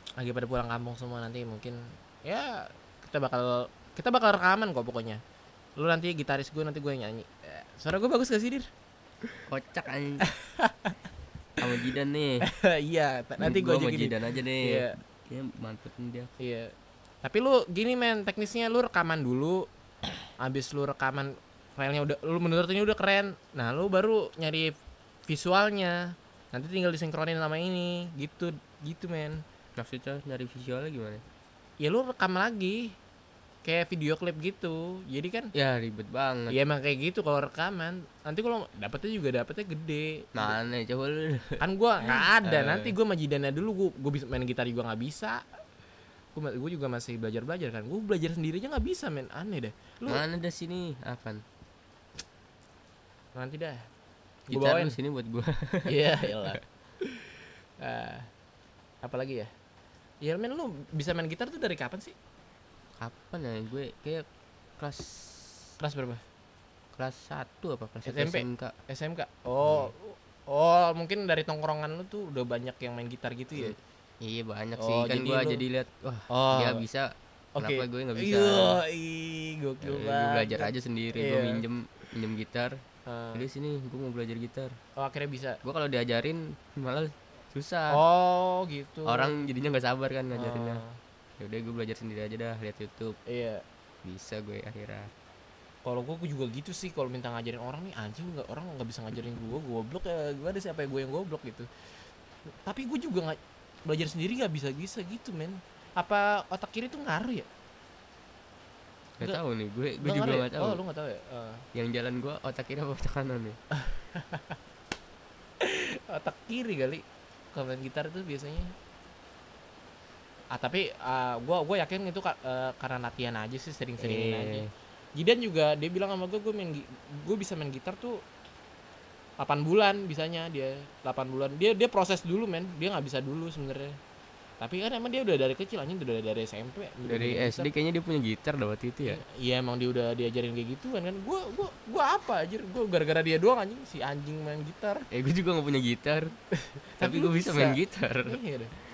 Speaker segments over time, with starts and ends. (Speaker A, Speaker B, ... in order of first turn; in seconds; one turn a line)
Speaker A: 0.2-5.2
Speaker A: 5.8-8.7
Speaker B: 9.4-10.3
Speaker A: 10.2-11.0
Speaker B: 11.6-12.5
Speaker A: 12.4-14.9
Speaker B: 13.4-16.3
Speaker A: 16.4-29.4
Speaker B: 29.8-31.2
Speaker A: 31.8-33.0
Speaker A: 33.6-35.5
Speaker B: 35.5-36.6
Speaker A: 36.5-40.6
Speaker B: 40.4-42.9
Speaker A: 41.6-45.6
Speaker A: 46.4-50.2
Speaker B: 50.1-51.4
Speaker A: 53.4-53.9
Speaker B: 54.5-56.6
Speaker A: 54.5-55.0
Speaker A: 55.9-58.3
Speaker A: 59.0-59.5
Speaker A: 60.2-62.1
Speaker B: 63.0-64.2
Speaker B: 64.8-65.7
Speaker A: 65.8-66.2
Speaker B: 66.9-68.8
Speaker A: 68.0-73.8
Speaker B: 69.6-69.9
Speaker B: 73.6-78.8
Speaker A: 74.8-75.6
Speaker A: 76.3-76.8
Speaker A: 77.6-81.6
Speaker B: 79.8-82.8
Speaker A: 83.0-83.5
Speaker B: 83.3-84.8
Speaker A: 85.0-85.6
Speaker B: 85.6-88.0
Speaker A: 87.9-89.5
Speaker B: 89.0-90.8
Speaker A: 90.3-91.0
Speaker B: 91.4-93.2
Speaker A: 93.2-93.6
Speaker B: 94.0-95.1
Speaker A: 95.8-101.7
Speaker A: 102.7-107.5
Speaker B: 109.2-110.8
Speaker A: 110.0-111.6
Speaker B: 111.7-113.6
Speaker A: 113.7-114.6
Speaker A: 115.6-118.7
Speaker A: 120.5-128.2
Speaker B: 124.0-124.7
Speaker A: 129.4-134.0
Speaker A: 134.6-137.7
Speaker B: 137.0-139.2
Speaker A: 139.0-145.1
Speaker B: 145.1-146.4
Speaker A: 146.8-148.7
Speaker B: 147.0-148.4